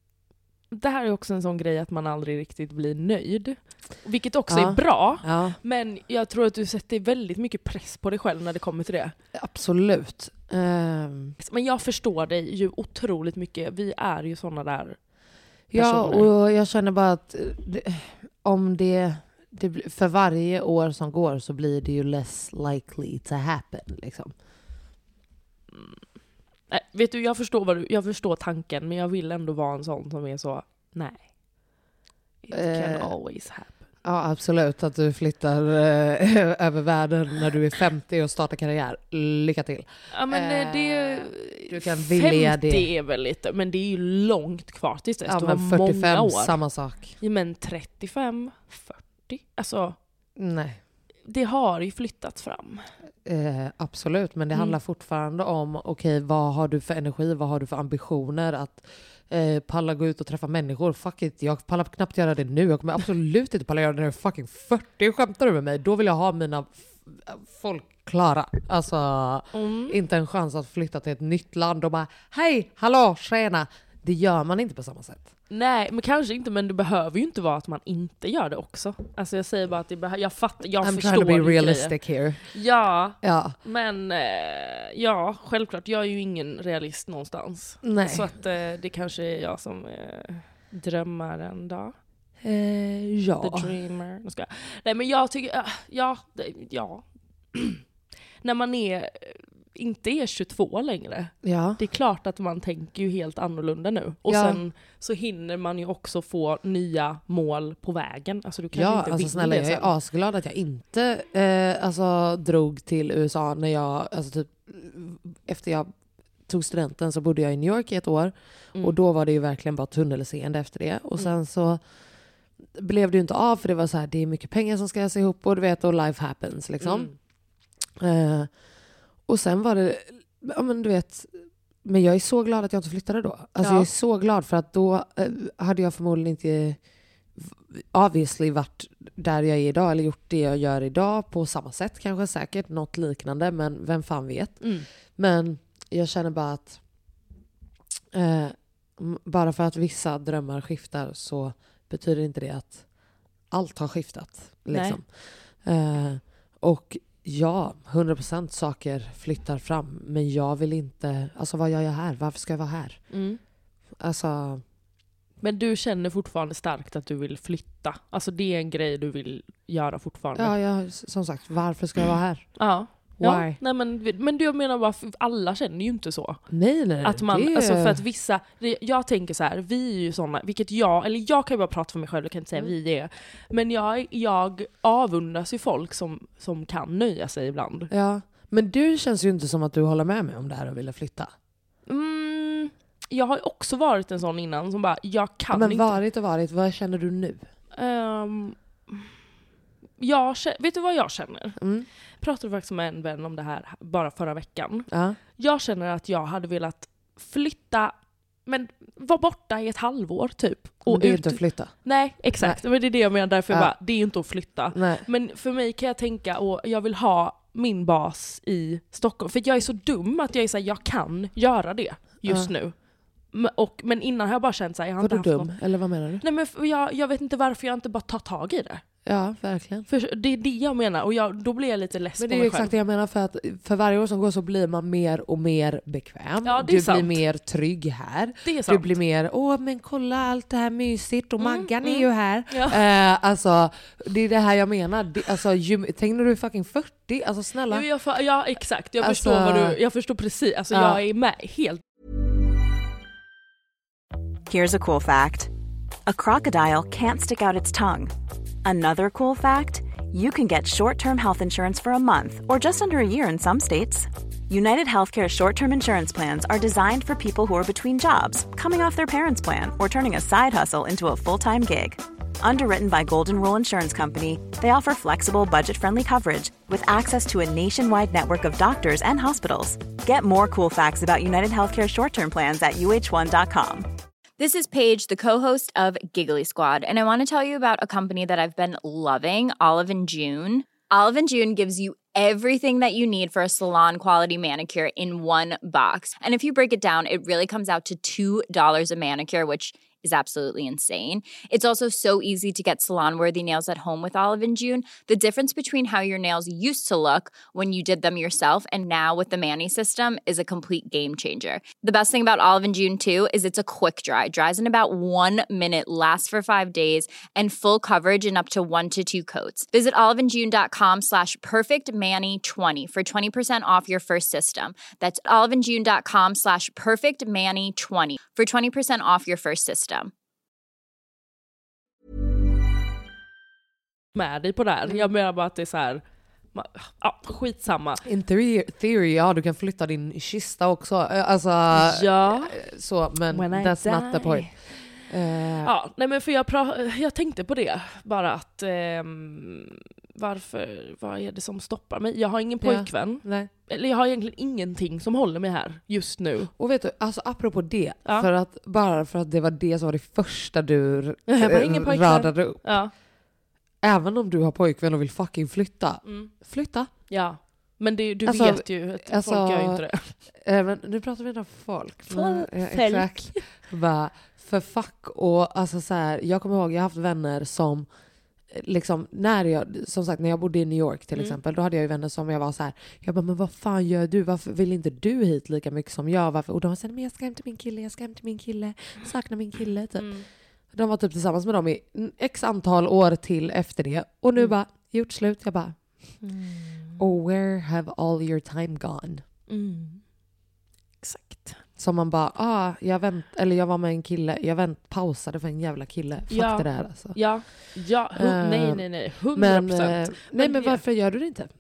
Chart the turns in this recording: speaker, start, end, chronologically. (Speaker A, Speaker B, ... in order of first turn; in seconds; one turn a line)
Speaker A: 0.7-9.2
Speaker B: 4.5-5.6
Speaker B: 9.3-11.4
Speaker A: 11.4-15.0
Speaker B: 15.7-24.3
Speaker A: 15.8-16.3
Speaker A: 26.7-31.2
Speaker A: 32.4-33.8
Speaker B: 32.5-33.1
Speaker B: 34.0-42.9
Speaker A: 40.1-46.6
Speaker B: 45.3-47.2
Speaker A: 47.2-50.0
Speaker B: 50.4-50.8
Speaker A: 51.3-52.9
Speaker B: 53.2-75.3
Speaker A: 69.5-70.0
Speaker A: 75.5-82.0
Speaker B: 80.8-82.4
Speaker A: 82.5-92.0
Speaker B: 83.2-83.6
Speaker B: 87.8-88.3
Speaker B: 92.4-93.7
Speaker A: 93.4-97.8
Speaker A: 98.4-109.9
Speaker B: 101.4-101.8
Speaker B: 104.3-104.6
Speaker B: 108.7-115.9
Speaker B: 116.5-121.8
Speaker B: 122.8-127.1
Speaker A: 126.8-127.1
Speaker B: 128.0-128.5
Speaker B: 129.3-131.3
Speaker B: 131.8-136.8
Speaker A: 133.6-133.9
Speaker B: 137.4-146.8
Speaker A: 144.6-144.9
Speaker B: 148.1-152.8
Speaker B: 153.5-163.0
Speaker A: 154.7-155.0
Speaker A: 163.1-163.4
Speaker B: 164.0-164.6
Speaker A: 165.4-170.5
Speaker B: 170.3-172.6
Speaker A: 172.6-176.4
Speaker B: 173.2-173.6
Speaker B: 176.5-178.0
Speaker A: 177.0-187.9
Speaker B: 187.9-191.3
Speaker A: 191.9-196.0
Speaker B: 195.5-197.5
Speaker A: 197.7-199.1
Speaker A: 200.0-201.6
Speaker B: 201.6-201.9
Speaker A: 202.2-207.9
Speaker B: 204.9-205.2
Speaker A: 208.5-222.8
Speaker B: 210.9-211.8
Speaker B: 214.7-215.1
Speaker B: 222.2-222.5
Speaker A: 223.3-225.5
Speaker B: 225.0-226.2
Speaker A: 226.2-228.8
Speaker B: 229.1-229.9
Speaker A: 229.9-232.7
Speaker B: 232.2-247.9
Speaker A: 236.4-237.2
Speaker A: 238.4-238.9
Speaker A: 241.4-242.8
Speaker A: 247.7-251.8
Speaker B: 249.0-249.8
Speaker B: 250.7-251.0
Speaker C: 254.5-255.5
Speaker C: 256.1-258.1
Speaker C: 258.6-283.9
Speaker D: 284.4-330.1
Speaker A: 334.1-336.0
Speaker A: 336.5-338.0
Speaker B: 338.0-345.7
Speaker A: 341.7-342.6
Speaker A: 343.3-345.1
Speaker A: 345.6-356.5
Speaker B: 352.6-353.5
Speaker B: 356.6-362.6
Speaker A: 361.3-362.9
Speaker B: 363.8-366.9
Speaker A: 366.1-366.3
Speaker A: 367.1-370.1
Speaker B: 368.3-377.9
Speaker A: 372.1-373.5
Speaker B: 378.5-390.1
Speaker A: 390.0-390.3
Speaker B: 390.7-395.8
Speaker A: 396.2-397.0
Speaker B: 397.0-399.2
Speaker A: 399.5-400.0
Speaker A: 401.0-401.6
Speaker B: 401.8-407.2
Speaker A: 406.3-410.8
Speaker B: 408.2-411.5